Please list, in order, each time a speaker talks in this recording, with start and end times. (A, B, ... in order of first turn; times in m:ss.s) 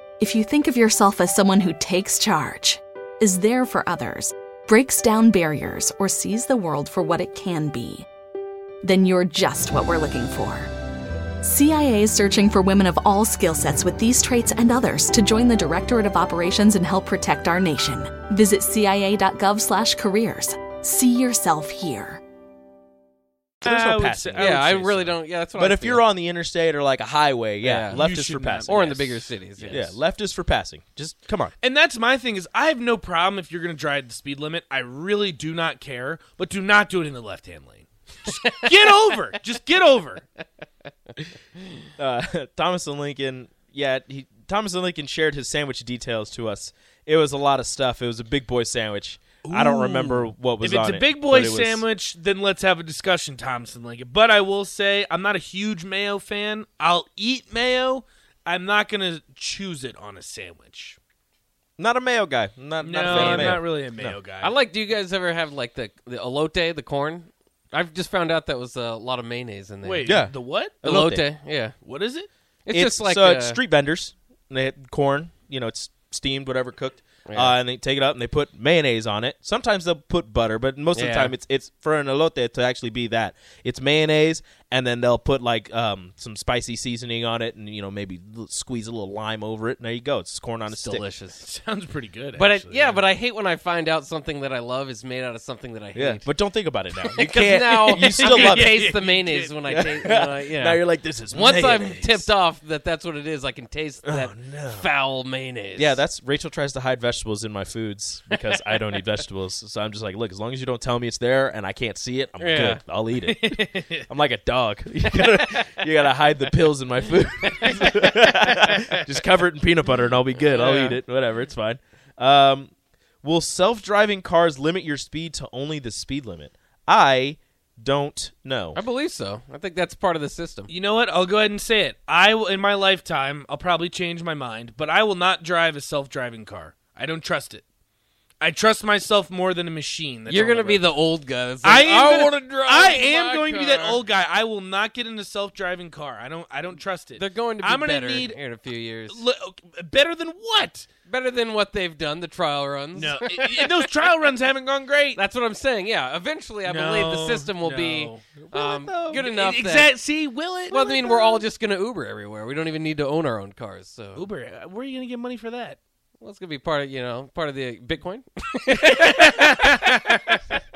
0:00.2-0:08.1 A
0:08.8-0:10.7 A
0:11.4-0:22.2 A
0:23.6-0:25.1 B
0:23.6-0:29.0 C
0:24.4-0:26.0 D
0:27.6-0:28.0 D
0:27.9-0:29.9 B
0:28.7-0:30.0 D
0:29.7-0:31.5 C
0:31.6-0:40.2 B
0:38.3-0:38.7 D
0:42.0-0:51.8 C
0:49.4-1:01.0 B
1:01.8-1:04.2 C
1:02.8-1:04.5 B
1:03.0-1:03.6 D
1:04.4-1:10.3 D
1:09.8-1:10.9 B
1:10.0-1:11.2 C
1:10.8-1:11.8 D
1:11.8-1:12.3 B
1:12.7-1:13.6 D
1:12.7-1:31.0 C
1:17.3-1:17.6 D
1:21.0-1:21.3 D
1:30.7-1:31.5 D
1:31.4-1:33.0 B
1:32.4-1:36.3 D
1:36.0-1:38.9 C
1:37.2-1:46.0 D
1:37.9-1:39.9 B
1:39.7-1:42.3 C
1:44.0-1:44.9 C
1:45.8-2:02.7 C
1:52.4-1:52.8 D
1:53.5-1:54.1 B
2:00.5-2:01.0 D
2:03.2-2:08.8 C
2:08.8-2:10.7 D
2:10.7-2:17.6 B
2:18.4-2:20.9 B
2:20.3-2:24.0 D
2:21.6-2:28.4 B
2:27.2-2:29.2 D
2:29.1-2:30.9 B
2:31.1-2:33.9 D
2:33.0-2:35.2 B
2:35.2-2:40.0 D
2:36.6-2:38.3 B
2:38.5-2:39.2 C
2:39.2-2:41.4 B
2:40.7-2:44.3 D
2:44.2-2:45.8 B
2:46.2-2:50.1 D
2:48.9-2:50.4 B